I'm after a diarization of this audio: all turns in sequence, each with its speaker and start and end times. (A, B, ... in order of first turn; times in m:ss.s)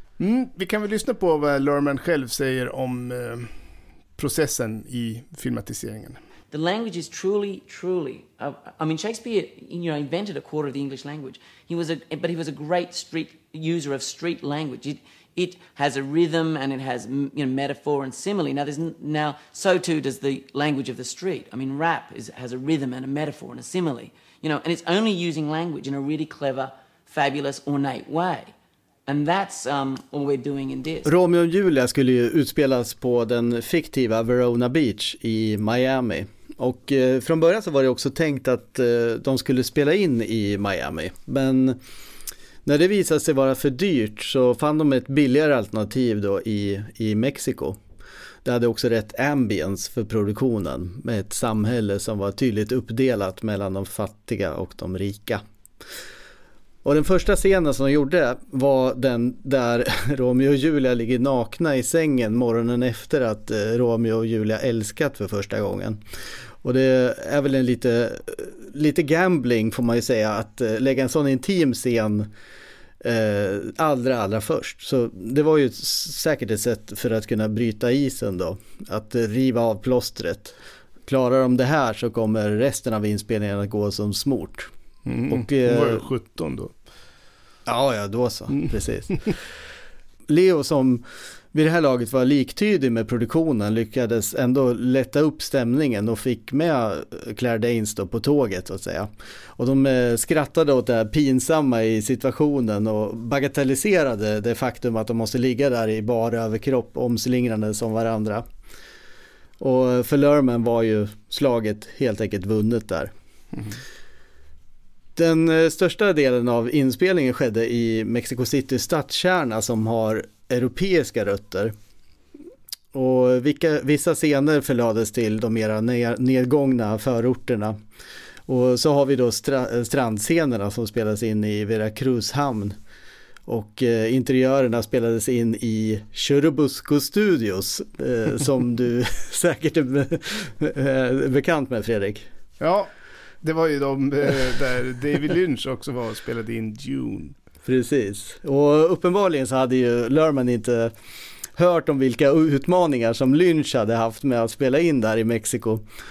0:00.2-0:03.5 A
0:04.2-0:06.2 A
0:06.5-0:28.5 B
0:29.1-0:31.1 B
0:31.0-0:41.8 C
0:42.6-0:47.8 C
0:48.4-0:55.4 C
0:56.8-1:06.0 C
1:06.6-1:12.3 C
1:13.0-1:24.7 C
1:25.1-1:26.7 A
1:25.3-1:26.1 C
1:27.7-1:29.4 C
1:30.3-1:48.5 C
1:49.6-1:53.1 C
1:55.2-2:01.7 C
2:02.9-2:07.8 C
2:08.5-2:12.8 C
2:13.5-2:22.3 C
2:22.6-2:22.9 A
2:23.4-2:27.4 A
2:27.6-2:30.9 C
2:31.6-2:35.9 C